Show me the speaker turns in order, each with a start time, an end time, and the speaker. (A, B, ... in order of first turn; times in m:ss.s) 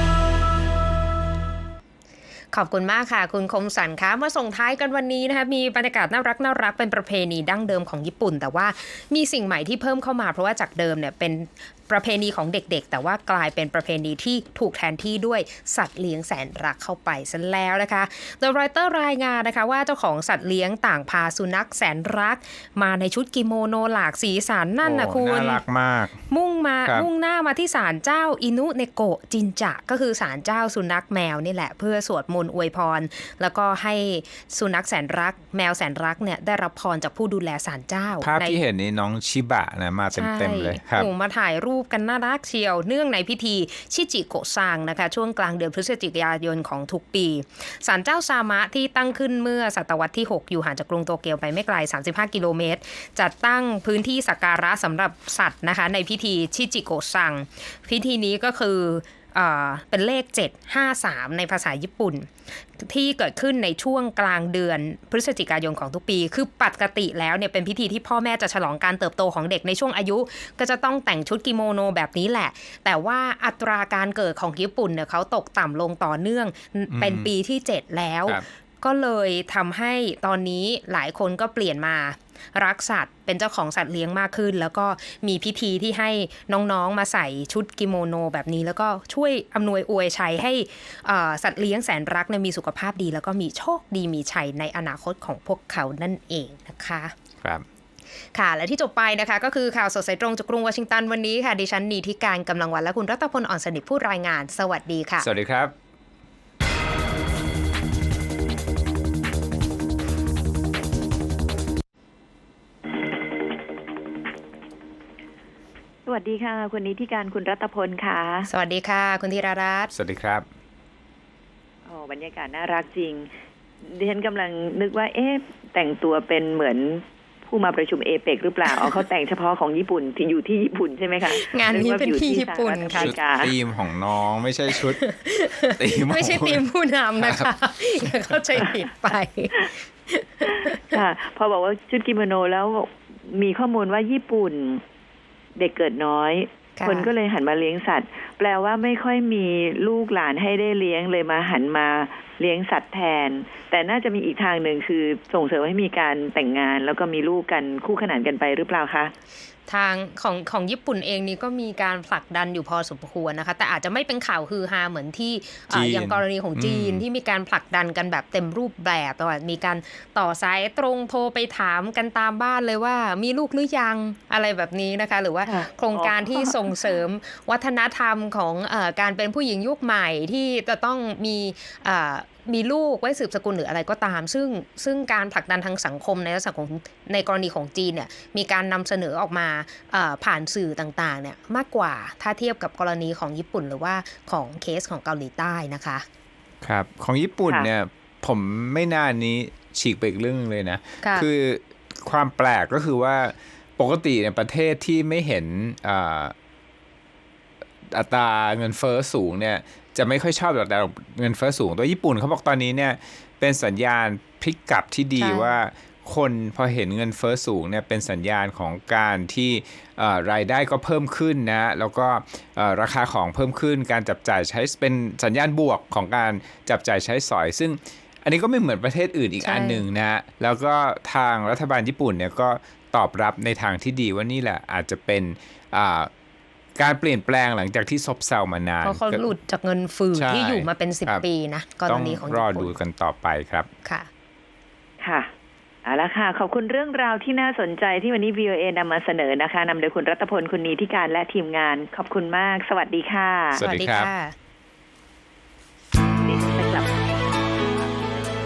0:02.5-0:25.6 A
0:24.8-0:26.2 B
0:26.3-0:38.6 A
0:38.2-0:41.1 B
0:40.1-1:37.1 A
1:16.9-1:17.3 B
1:38.3-1:45.3 A
1:45.2-1:45.7 B
1:56.0-1:58.5 C
1:58.5-1:59.9 A
1:59.9-2:00.4 B
2:01.8-2:03.3 C
2:03.8-2:13.5 C
2:11.3-2:13.1 A
2:13.0-2:15.0 B
2:14.7-2:20.8 A
2:15.8-2:16.6 B
2:17.2-2:17.5 B
2:20.9-2:24.8 C
2:25.6-2:39.1 C
2:26.8-2:27.1 A
2:39.7-3:16.0 A
2:45.7-2:47.0 B
2:55.4-2:56.6 C
3:16.6-3:26.3 B
3:21.0-3:21.3 A
3:27.9-3:56.1 B
3:35.2-3:35.5 A
3:49.4-3:49.8 A
3:56.8-3:59.3 B
3:58.8-4:02.7 A
4:00.1-4:01.2 B
4:01.9-4:03.7 B
4:05.0-4:05.3 C
4:05.8-4:13.6 C
4:13.5-4:14.1 B
4:13.6-4:14.3 A
4:16.2-4:16.9 C